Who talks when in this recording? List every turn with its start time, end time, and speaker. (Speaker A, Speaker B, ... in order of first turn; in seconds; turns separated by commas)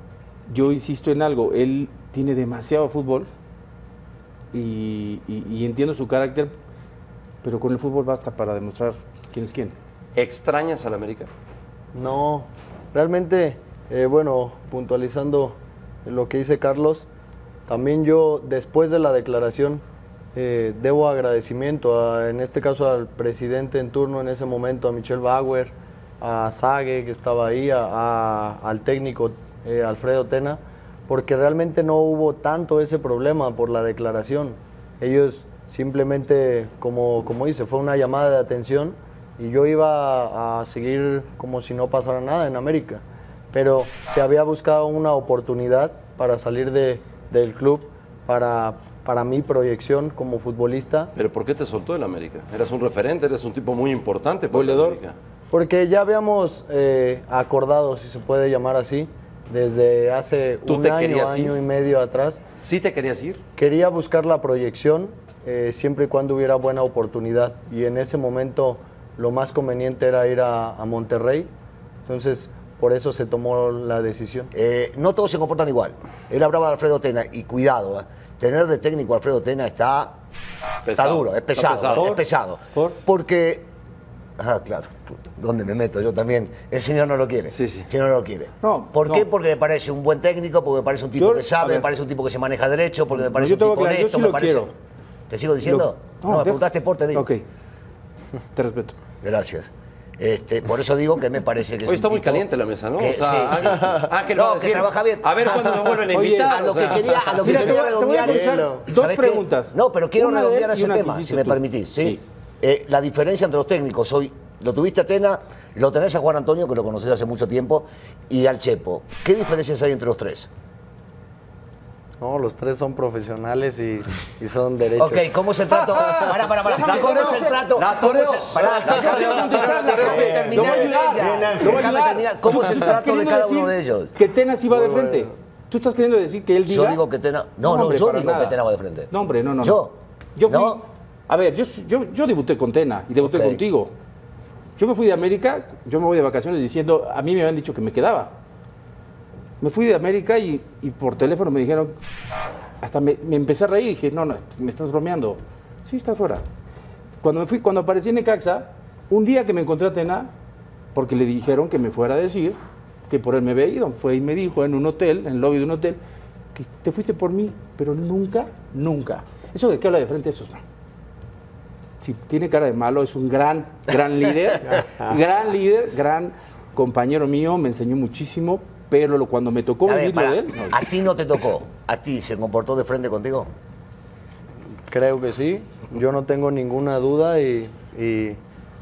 Speaker A: 0.5-3.3, Speaker A: 4.5-6.5, Speaker A: 7.4-9.8, Speaker B: 10.2-11.3, Speaker C: 11.9-17.1, Speaker C: 17.7-19.8, Speaker C: 20.3-51.1, Speaker B: 51.1-55.2, Speaker A: 54.5-55.0, Speaker C: 55.5-62.4, Speaker B: 60.7-61.5, Speaker B: 62.6-63.4, Speaker C: 63.5-71.5, Speaker C: 72.1-74.5, Speaker D: 74.5-80.2, Speaker B: 80.8-82.1, Speaker D: 81.0-83.7, Speaker A: 81.6-83.0, Speaker D: 84.4-94.8, Speaker B: 87.5-87.9, Speaker A: 88.6-89.3, Speaker A: 91.2-91.9, Speaker A: 93.2-94.7, Speaker D: 95.3-97.3, Speaker A: 95.7-97.4, Speaker A: 98.5-99.0, Speaker D: 99.2-102.4, Speaker B: 101.8-107.6, Speaker D: 103.0-105.3, Speaker A: 106.1-112.2, Speaker D: 106.5-120.5, Speaker C: 122.2-125.3, Speaker D: 125.0-134.1, Speaker A: 126.5-137.0, Speaker B: 126.8-130.9, Speaker C: 134.7-135.3, Speaker D: 136.6-140.8, Speaker A: 137.6-138.6, Speaker A: 139.1-143.9, Speaker D: 143.2-143.6, Speaker A: 144.8-148.3, Speaker A: 149.6-151.9, Speaker A: 152.8-156.4, Speaker A: 157.2-160.3, Speaker A: 160.9-162.6, Speaker A: 163.1-166.0, Speaker A: 166.5-170.6, Speaker A: 172.0-180.8, Speaker D: 179.8-183.5, Speaker C: 184.9-188.4